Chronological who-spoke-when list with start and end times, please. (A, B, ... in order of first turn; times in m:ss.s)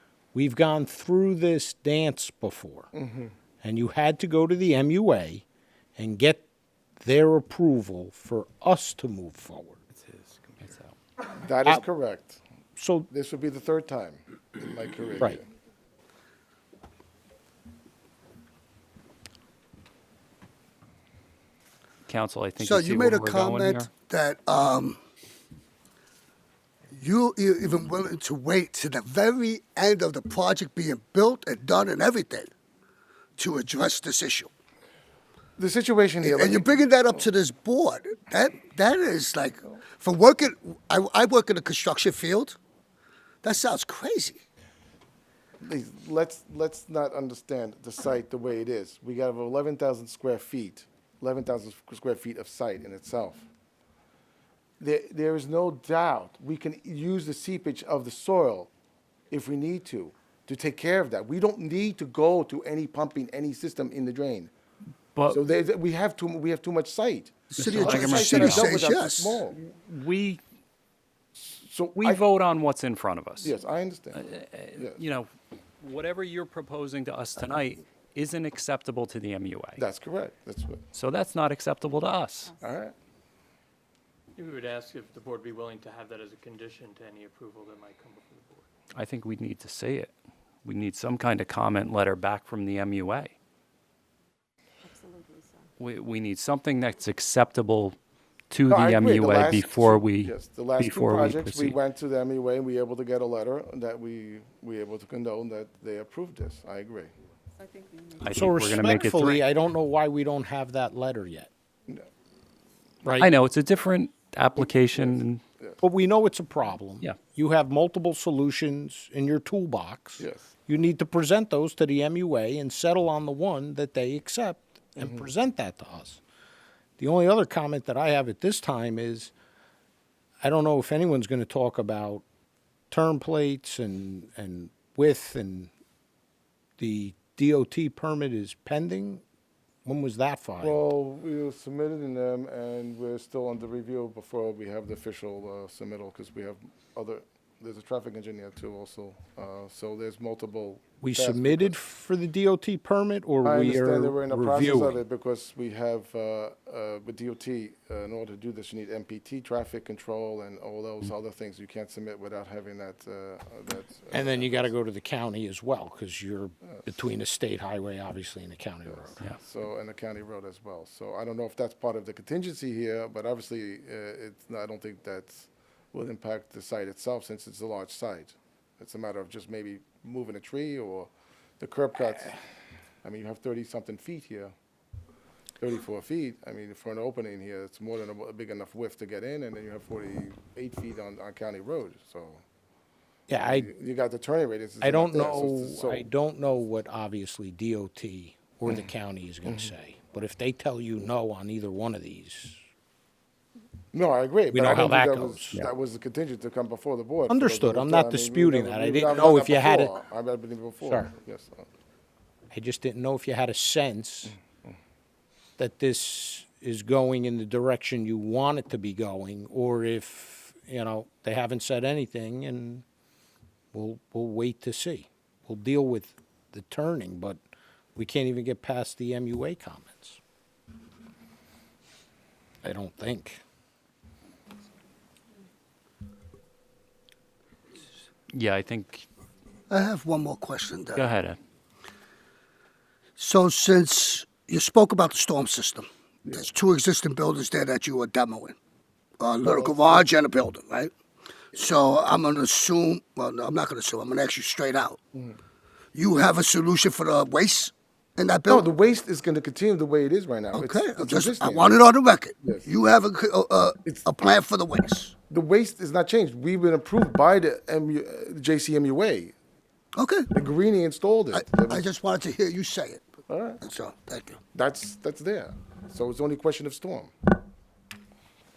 0:00.3-0:02.9 A
0:02.9-0:03.3 B
0:03.6-0:05.4 A
0:06.0-0:06.4 A
0:07.0-0:09.8 A
0:09.9-0:10.9 C
0:11.3-0:12.4 B
0:12.8-0:13.1 A
0:13.1-0:15.4 B
0:22.0-0:23.9 C
0:22.6-0:25.0 D
0:26.9-0:32.5 D
0:33.4-0:34.5 D
0:35.6-0:36.8 B
0:36.2-0:42.6 D
0:43.4-0:44.4 D
0:45.6-0:53.5 B
0:54.8-0:58.7 B
0:59.3-1:04.5 B
1:05.1-1:05.4 C
1:05.3-1:09.6 B
1:07.5-1:08.8 C
1:07.6-1:09.4 D
1:09.6-1:10.4 C
1:11.5-1:12.2 B
1:12.0-1:13.5 C
1:13.4-1:14.2 B
1:14.1-1:19.8 C
1:14.7-1:15.0 B
1:19.8-1:20.8 B
1:20.9-1:22.5 C
1:22.6-1:22.9 B
1:24.4-1:28.6 E
1:28.9-1:30.1 C
1:30.6-1:33.3 C
1:34.8-1:35.7 F
1:35.8-1:38.0 C
1:38.5-1:41.8 C
1:38.7-1:47.1 B
1:47.6-1:48.8 F
1:48.2-1:49.4 C
1:48.3-1:51.5 A
1:53.0-1:53.3 A
1:53.2-1:55.4 C
1:54.6-1:55.8 B
1:55.8-2:06.2 A
2:00.2-2:00.5 B
2:05.0-2:05.2 B
2:07.0-2:09.3 A
2:10.4-2:12.2 A
2:12.9-2:15.7 A
2:16.8-2:19.2 A
2:19.8-2:20.8 A
2:20.6-2:31.8 B
2:31.0-2:35.0 A
2:33.4-2:44.7 B
2:44.1-2:49.2 A
2:49.1-3:02.4 B
3:03.0-3:04.5 B
3:05.6-3:12.4 B
3:13.3-3:13.7 A
3:13.4-3:16.1 B
3:14.8-3:22.6 A
3:19.4-3:19.7 B
3:23.9-3:31.6 B
3:24.5-3:25.5 A
3:27.3-3:29.9 A
3:30.8-3:31.1 A
3:32.5-3:34.4 A
3:35.6-3:42.8 A
3:43.7-3:47.4 A
3:48.0-3:50.2 A
3:52.6-3:53.4 A
3:58.3-3:59.0 C
3:59.7-4:01.1 D
4:00.9-4:01.4 C
4:03.2-4:08.6 D
4:09.2-4:10.9 D
4:09.4-4:10.0 B
4:11.5-4:15.0 D
4:15.9-4:18.7 D
4:18.5-4:21.8 B
4:20.5-4:25.1 D
4:22.4-4:22.7 B
4:25.3-4:29.3 B
4:29.9-4:30.3 D
4:30.3-4:31.9 B
4:31.3-4:33.1 D
4:33.3-4:33.6 B
4:33.6-4:34.4 D
4:34.5-4:37.1 B